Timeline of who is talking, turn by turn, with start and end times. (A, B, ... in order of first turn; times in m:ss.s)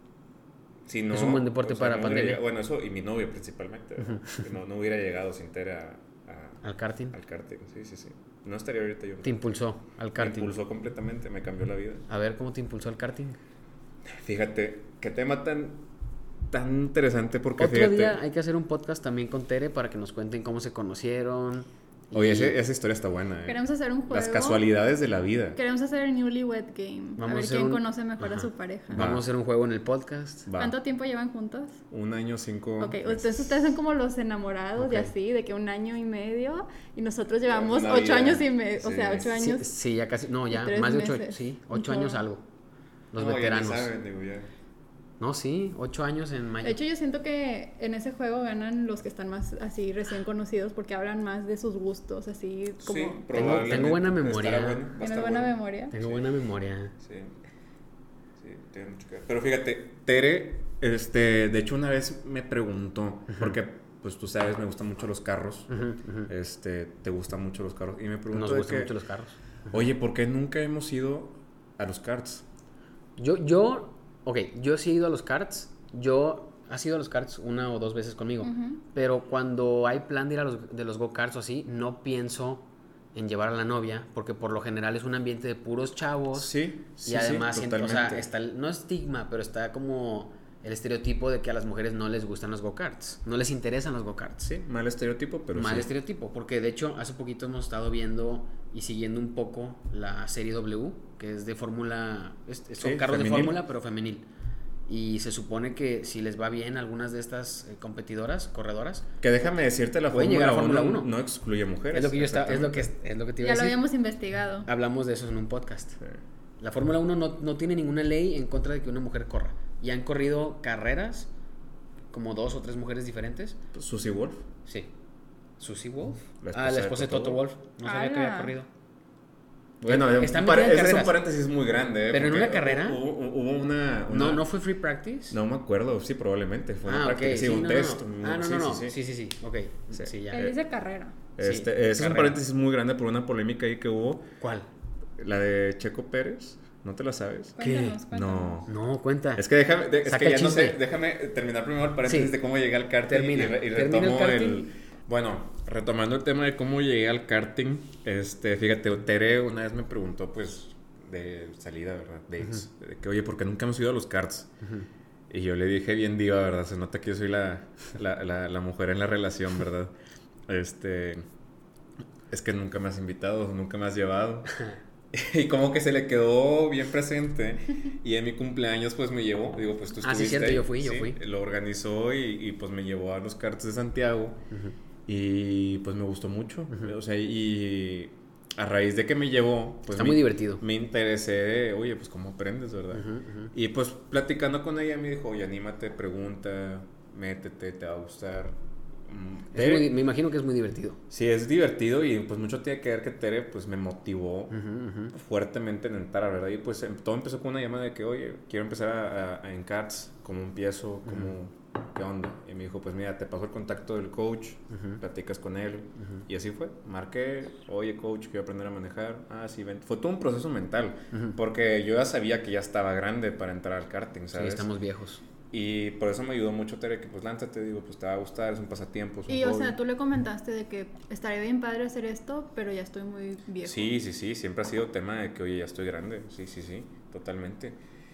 0:00.9-0:09.5 A
0:01.1-0:02.4 B
0:04.0-0:04.4 B
0:06.6-0:07.2 B
0:09.2-0:10.5 B
0:10.2-0:12.1 A
0:12.1-0:13.4 B
0:14.1-0:15.9 A
0:16.5-0:18.2 A
0:17.6-0:22.6 B
0:22.1-0:25.6 A
0:23.5-0:24.6 C
0:25.6-0:29.1 C
0:27.2-0:30.5 B
0:28.9-0:29.2 A
0:30.5-0:30.8 A
0:30.6-0:31.8 C
0:31.9-0:33.7 A
0:32.8-0:39.7 C
0:34.8-0:35.1 B
0:37.5-0:39.3 A
0:39.3-0:42.4 B
0:40.5-0:42.3 C
0:43.1-0:43.9 B
0:43.2-0:44.5 A
0:45.2-0:46.8 B
0:46.6-0:53.8 C
0:52.8-0:56.2 A
0:53.3-0:54.9 B
0:55.0-0:55.9 C
0:55.9-0:57.0 B
0:57.0-0:57.4 A
0:58.4-1:09.0 A
1:05.7-1:06.3 B
1:08.3-1:09.8 B
1:09.7-1:12.5 A
1:13.2-1:34.4 B
1:18.4-1:18.8 C
1:26.3-1:28.3 A
1:34.4-1:35.9 A
1:35.5-1:44.3 B
1:42.8-1:43.6 A
1:44.9-1:49.1 B
1:49.2-1:52.9 A
1:50.1-1:51.1 B
1:51.9-1:53.8 B
1:53.4-1:54.7 C
1:54.6-1:56.0 B
1:56.6-2:01.3 B
2:02.1-2:03.6 B
2:03.7-2:04.5 A
2:04.7-2:04.9 B
2:05.6-2:08.7 B
2:06.4-2:07.4 A
2:07.8-2:08.5 C
2:09.8-2:11.2 B
2:09.8-2:14.5 A
2:12.1-2:13.0 B
2:14.1-2:15.4 B
2:15.3-2:19.0 A
2:16.8-2:20.5 B
2:19.9-2:20.6 A
2:20.3-2:21.2 C
2:21.4-2:24.3 A
2:21.4-2:22.4 B
2:24.4-2:24.7 B
2:25.2-2:28.7 A
2:27.6-2:28.6 C
2:27.6-2:28.0 B
2:28.7-2:29.4 B
2:29.4-2:44.5 A
2:30.0-2:30.8 B
2:32.1-2:32.3 B
2:33.1-2:34.7 B
2:45.3-2:49.9 A
2:50.5-2:51.2 A
2:52.3-2:54.6 A
2:55.1-3:04.4 A
3:00.0-3:01.2 B
3:05.1-3:20.0 A
3:09.9-3:10.6 B
3:12.9-3:13.5 B
3:19.5-3:21.0 B
3:21.1-3:24.6 A
3:24.5-3:25.1 B
3:25.1-3:44.7 A
3:31.1-3:31.3 B
3:34.7-3:35.0 B
3:41.1-3:41.4 B
3:44.3-3:45.2 B
3:45.5-3:49.8 A
3:49.3-3:54.0 C
3:53.6-3:57.8 A